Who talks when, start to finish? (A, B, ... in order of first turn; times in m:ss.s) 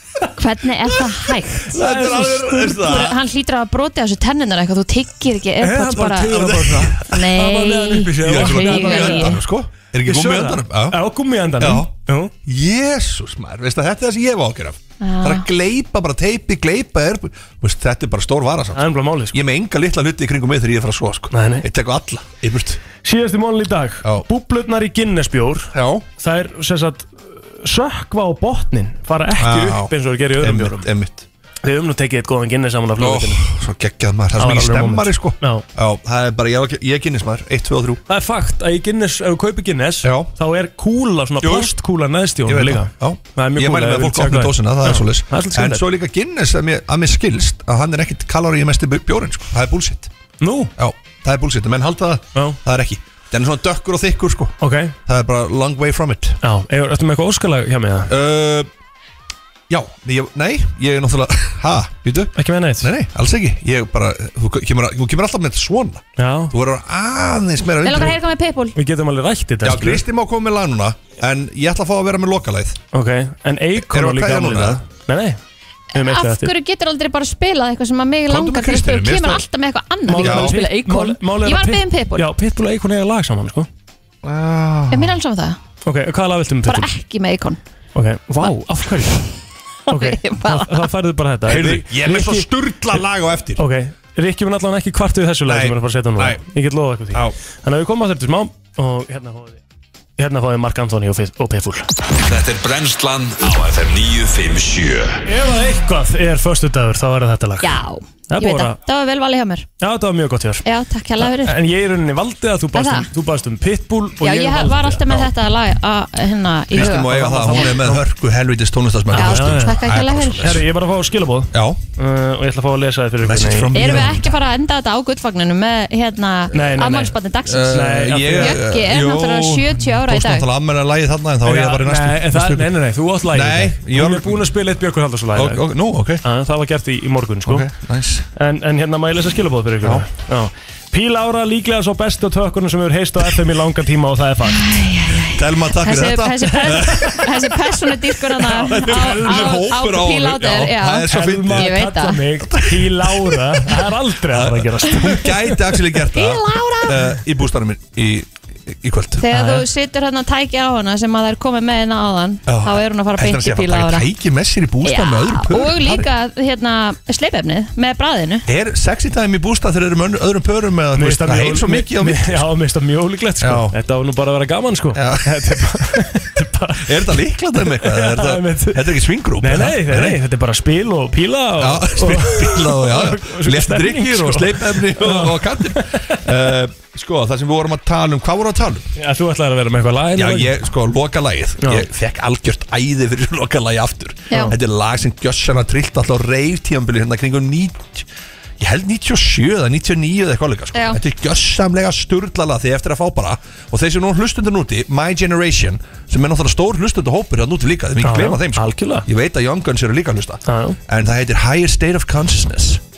0:00.4-0:06.4 A
0:01.7-0:03.0 B
0:01.7-0:03.2 C
0:05.6-0:09.4 B
0:06.3-0:07.0 C
0:07.0-0:09.4 A
0:08.2-0:11.0 C
0:10.0-0:12.3 B
0:11.6-0:11.9 C
0:12.4-0:22.8 C
0:15.0-0:15.5 A
0:18.7-0:19.4 B
0:21.3-0:21.6 B
0:23.0-0:30.9 B
0:25.7-0:26.0 C
0:29.4-0:31.2 C
0:31.6-0:33.4 B
0:33.0-0:38.0 C
0:34.4-0:35.6 B
0:38.1-0:45.8 B
0:40.0-0:40.3 C
0:41.4-0:41.7 C
0:42.4-0:50.1 C
0:50.4-0:50.7 B
0:50.8-0:56.4 C
0:54.6-0:54.9 B
0:56.4-0:58.1 B
0:58.1-0:58.7 C
0:59.7-1:08.2 C
1:02.3-1:02.9 B
1:06.2-1:06.5 B
1:07.8-1:08.8 A
1:08.7-1:10.0 B
1:09.6-1:12.8 C
1:12.9-1:15.4 B
1:13.8-1:14.8 C
1:15.9-1:16.5 B
1:15.9-1:22.3 A
1:18.3-1:19.4 C
1:20.0-1:23.7 B
1:20.1-1:20.6 C
1:24.2-1:25.2 C
1:24.9-1:25.6 A
1:25.8-1:26.9 B
1:26.6-1:27.6 A
1:27.9-1:33.0 B
1:29.9-1:30.8 A
1:31.4-1:33.6 C
1:33.6-1:39.6 B
1:35.4-1:36.4 C
1:37.1-1:37.4 C
1:40.2-1:41.9 B
1:42.2-1:45.2 D
1:45.2-1:47.8 B
1:47.6-1:49.6 A
1:48.3-1:48.8 B
1:49.8-1:50.6 B
1:50.6-1:51.6 A
1:51.2-1:55.3 B
1:52.7-1:53.1 A
1:54.2-1:57.8 A
1:56.7-2:00.6 C
1:56.8-1:58.0 B
1:59.1-2:04.2 B
1:59.1-2:00.5 A
2:01.5-2:01.8 C
2:03.2-2:04.3 C
2:03.7-2:10.4 A
2:06.5-2:08.6 B
2:07.5-2:12.7 C
2:11.4-2:15.6 B
2:13.3-2:14.4 C
2:15.3-2:16.2 C
2:16.2-2:17.7 B
2:17.4-2:18.2 C
2:18.3-2:24.7 B
2:24.5-2:32.2 A
2:25.3-2:27.3 C
2:28.4-2:29.6 B
2:28.7-2:33.7 C
2:31.1-2:35.8 B
2:34.3-2:39.2 C
2:36.1-2:37.0 A
2:39.2-2:44.1 A
2:39.3-2:39.7 B
2:42.5-2:46.1 C
2:44.8-2:48.4 A
2:48.4-2:52.4 C
2:50.9-3:06.2 B
2:53.4-2:53.7 C
2:54.9-2:55.5 C
2:56.8-3:00.2 C
3:01.6-3:08.9 C
3:09.0-3:10.5 B
3:10.1-3:18.1 C
3:11.6-3:11.8 B
3:18.6-3:32.8 C
3:20.7-3:21.0 A
3:28.0-3:29.1 B
3:30.5-3:30.8 B